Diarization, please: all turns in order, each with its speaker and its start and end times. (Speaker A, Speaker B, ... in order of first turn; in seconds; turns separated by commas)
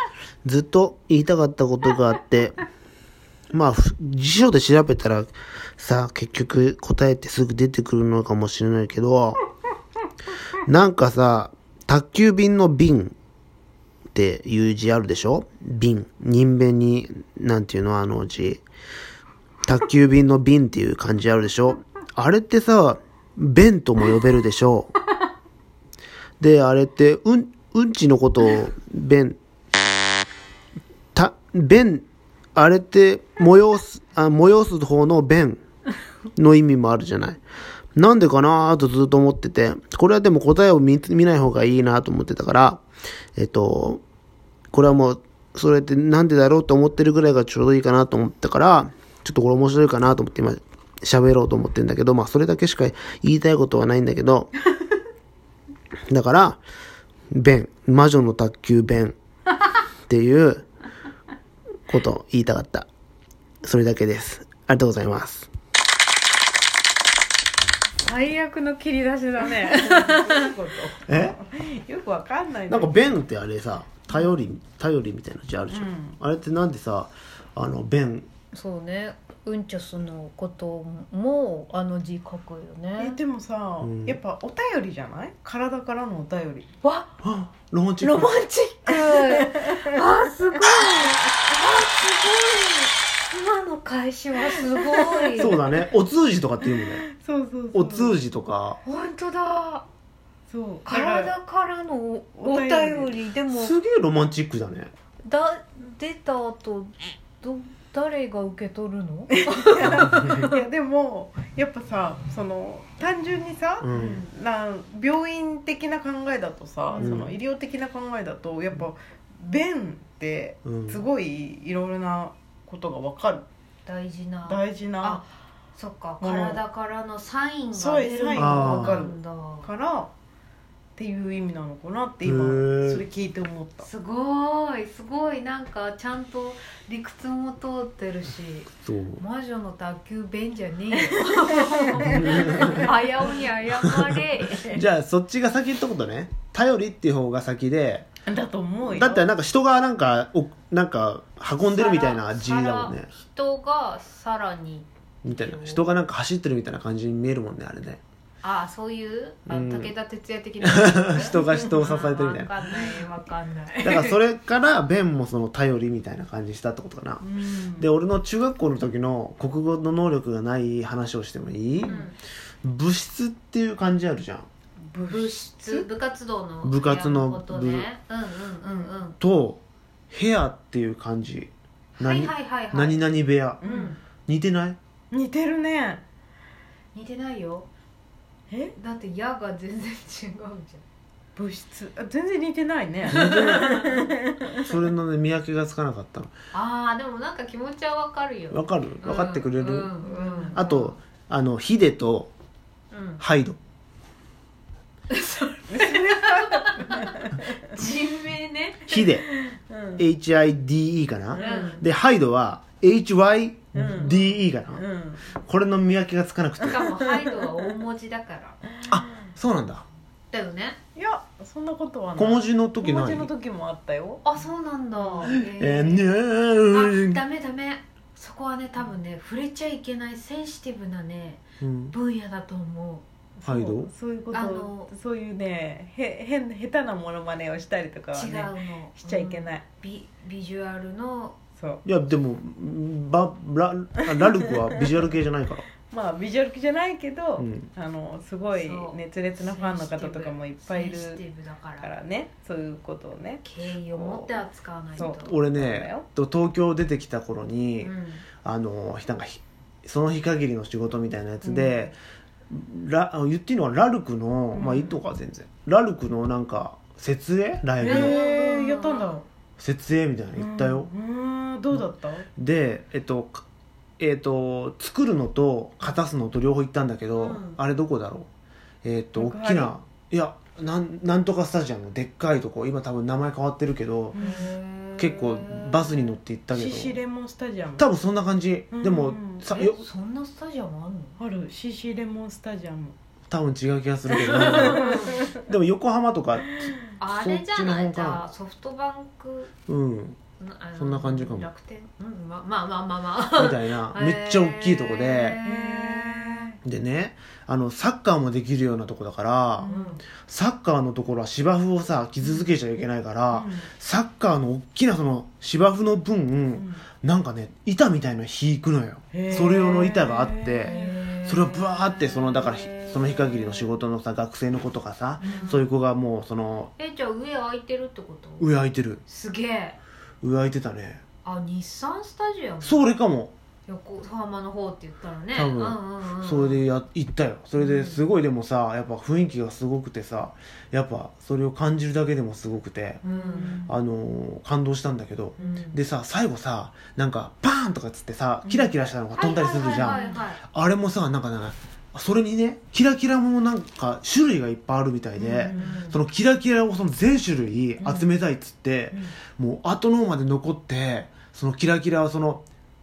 Speaker A: 0.4-2.6, Speaker A: 3.5-9.4, Speaker A: 10.6-13.1, Speaker A: 14.1-18.6, Speaker A: 19.6-24.9, Speaker A: 26.4-29.4, Speaker A: 31.1-35.6, Speaker A: 36.4-37.4, Speaker A: 38.0-42.8, Speaker A: 43.4-44.0, Speaker A: 44.7-54.5, Speaker A: 56.1-56.6, Speaker A: 57.3-59.1, Speaker A: 60.1-60.6, Speaker A: 61.9-62.9, Speaker A: 63.6-65.5, Speaker B: 68.0-70.5, Speaker C: 69.5-73.1, Speaker A: 71.1-71.3, Speaker A: 72.7-78.3, Speaker C: 75.7-76.2, Speaker B: 78.5-83.2, Speaker C: 83.0-86.7, Speaker A: 83.8-84.2, Speaker B: 86.8-87.1, Speaker A: 87.2-88.3, Speaker B: 88.0-95.6, Speaker C: 88.9-89.8, Speaker C: 94.4-95.6, Speaker A: 95.4-97.0, Speaker C: 96.7-98.2, Speaker A: 97.7-98.8, Speaker B: 98.8-99.8, Speaker C: 100.5-101.3, Speaker B: 100.8-103.7, Speaker C: 102.4-103.1, Speaker A: 103.5-104.9, Speaker B: 105.2-110.5, Speaker C: 109.3-123.4, Speaker A: 113.8-114.2, Speaker B: 116.9-117.3, Speaker A: 117.0-117.3, Speaker A: 120.6-121.0, Speaker B: 123.8-129.7, Speaker C: 124.5-125.2, Speaker C: 126.2-126.6, Speaker C: 127.7-130.1, Speaker A: 128.3-129.0, Speaker C: 130.9-133.9, Speaker A: 132.2-133.0, Speaker B: 133.8-144.8, Speaker A: 138.8-139.2, Speaker A: 142.1-142.8, Speaker C: 142.2-142.9, Speaker A: 144.6-148.1, Speaker C: 148.2-149.3, Speaker A: 148.9-153.1, Speaker B: 151.6-155.9, Speaker A: 155.2-158.0, Speaker B: 158.4-164.2, Speaker A: 159.5-159.9, Speaker A: 160.6-162.8, Speaker A: 163.8-172.0, Speaker C: 167.2-167.9, Speaker B: 171.8-172.2, Speaker A: 172.6-174.5, Speaker C: 174.8-175.8, Speaker B: 175.1-179.2, Speaker A: 176.6-177.9, Speaker A: 179.2-183.6, Speaker B: 182.0-183.1, Speaker C: 183.6-183.9, Speaker B: 183.6-184.0, Speaker A: 184.2-184.8, Speaker C: 185.1-186.0, Speaker B: 186.9-187.7, Speaker C: 188.5-188.7, Speaker B: 188.8-190.8, Speaker C: 191.3-194.7, Speaker A: 193.1-193.7, Speaker B: 193.1-194.0, Speaker A: 194.6-196.3, Speaker B: 196.5-200.8, Speaker A: 198.5-199.9, Speaker C: 200.0-200.9, Speaker A: 200.5-202.3, Speaker B: 202.9-203.2, Speaker A: 203.2-203.6, Speaker B: 205.1-209.0, Speaker C: 205.7-207.5, Speaker A: 208.9-209.3, Speaker C: 209.3-210.0, Speaker A: 210.0-216.8, Speaker C: 211.3-211.8, Speaker B: 211.4-211.8, Speaker C: 213.7-215.2, Speaker B: 216.6-218.6, Speaker C: 216.7-217.4, Speaker A: 218.9-219.8, Speaker B: 220.3-220.8, Speaker C: 220.9-224.2, Speaker A: 222.2-223.3, Speaker B: 224.2-226.2, Speaker A: 225.2-227.2, Speaker B: 226.7-233.1, Speaker A: 231.6-231.9, Speaker C: 233.4-239.6, Speaker A: 233.4-233.9, Speaker B: 234.3-234.9, Speaker B: 238.1-241.3, Speaker C: 241.6-241.8, Speaker A: 241.8-245.7, Speaker C: 245.9-251.2, Speaker A: 247.4-247.7, Speaker B: 248.5-251.9, Speaker C: 251.8-254.4, Speaker B: 253.4-255.3, Speaker C: 254.9-256.1, Speaker A: 255.0-257.9, Speaker B: 257.8-258.2, Speaker A: 258.4-262.0, Speaker C: 261.4-261.8, Speaker A: 262.5-268.2, Speaker C: 264.5-265.0, Speaker B: 267.8-269.2, Speaker C: 267.8-269.2, Speaker A: 269.6-270.9, Speaker C: 270.3-272.3, Speaker A: 272.4-273.4, Speaker A: 274.0-278.3, Speaker B: 277.2-277.5, Speaker C: 277.2-277.5, Speaker A: 278.8-284.2, Speaker C: 279.1-279.7, Speaker C: 284.1-284.5, Speaker B: 284.2-286.1, Speaker A: 285.0-287.0, Speaker C: 286.5-287.9, Speaker A: 287.8-289.8, Speaker C: 288.7-289.4, Speaker B: 289.5-291.2, Speaker C: 291.2-292.9, Speaker A: 293.3-298.2, Speaker B: 294.1-295.2, Speaker C: 294.3-295.3, Speaker B: 297.0-299.5, Speaker A: 299.7-300.2, Speaker B: 300.4-306.5, Speaker A: 300.8-301.5, Speaker A: 303.4-305.4, Speaker C: 305.4-306.6, Speaker A: 306.6-326.7, Speaker C: 309.6-310.0, Speaker B: 309.6-310.0, Speaker C: 312.2-312.5, Speaker C: 313.3-313.7, Speaker C: 316.5-316.8, Speaker C: 319.1-321.0, Speaker B: 320.6-323.8, Speaker B: 325.2-325.7, Speaker B: 326.8-329.8, Speaker A: 328.4-329.0, Speaker A: 330.2-331.0, Speaker B: 331.2-332.9, Speaker A: 332.6-333.3, Speaker B: 333.7-336.6, Speaker A: 335.3-343.0, Speaker B: 337.6-338.0, Speaker B: 343.0-343.7, Speaker C: 343.1-343.7, Speaker A: 343.6-362.4, Speaker B: 345.4-345.8, Speaker C: 348.4-348.7, Speaker B: 349.1-350.4, Speaker C: 349.6-350.2, Speaker C: 355.2-355.8, Speaker B: 355.2-356.0